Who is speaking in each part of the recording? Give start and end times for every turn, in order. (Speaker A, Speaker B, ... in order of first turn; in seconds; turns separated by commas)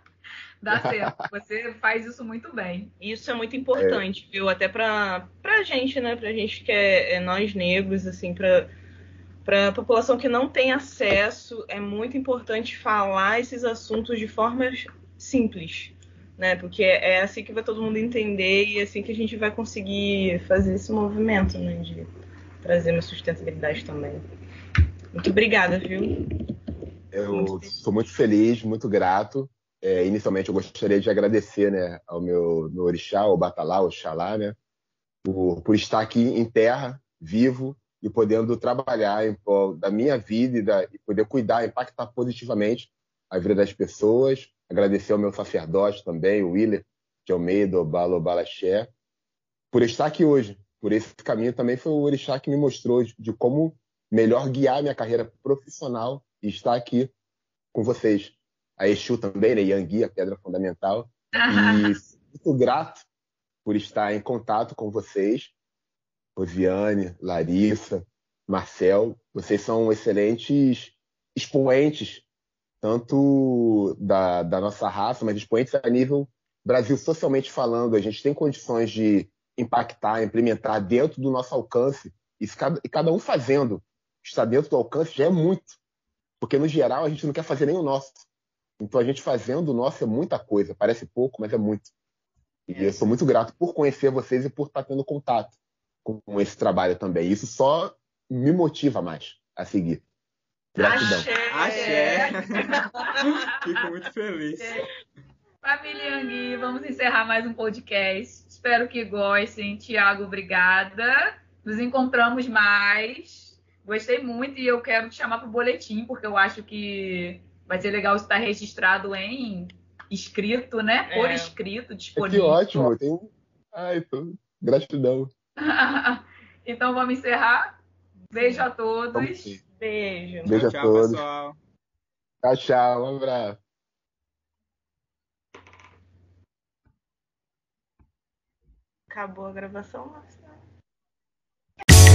Speaker A: 0.6-2.9, Speaker B: 0.7-1.1, Speaker C: 3.0-8.7, Speaker B: 3.8-4.0, Speaker C: 9.4-22.1, Speaker C: 22.6-24.2, Speaker C: 25.1-26.1, Speaker B: 27.1-34.6, Speaker C: 27.3-27.8, Speaker B: 35.2-48.9, Speaker B: 49.7-57.1, Speaker B: 57.7-63.1, Speaker A: 61.4-62.0, Speaker B: 63.6-65.5, Speaker B: 66.4-72.2, Speaker B: 72.8-85.8, Speaker B: 86.4-88.3, Speaker B: 88.8-91.9, Speaker B: 92.7-100.0, Speaker C: 92.7-93.1, Speaker B: 100.8-101.3, Speaker C: 100.8-103.2, Speaker A: 101.2-103.8, Speaker D: 101.5-104.8, Speaker A: 105.6-122.9, Speaker C: 121.1-121.6, Speaker B: 122.2-125.3, Speaker A: 125.6-127.8, Speaker C: 128.3-128.7, Speaker A: 128.3-129.5, Speaker B: 129.1-129.6, Speaker C: 129.8-130.6, Speaker B: 130.4-131.2, Speaker D: 130.5-131.6, Speaker B: 132.4-133.6, Speaker C: 139.1-140.6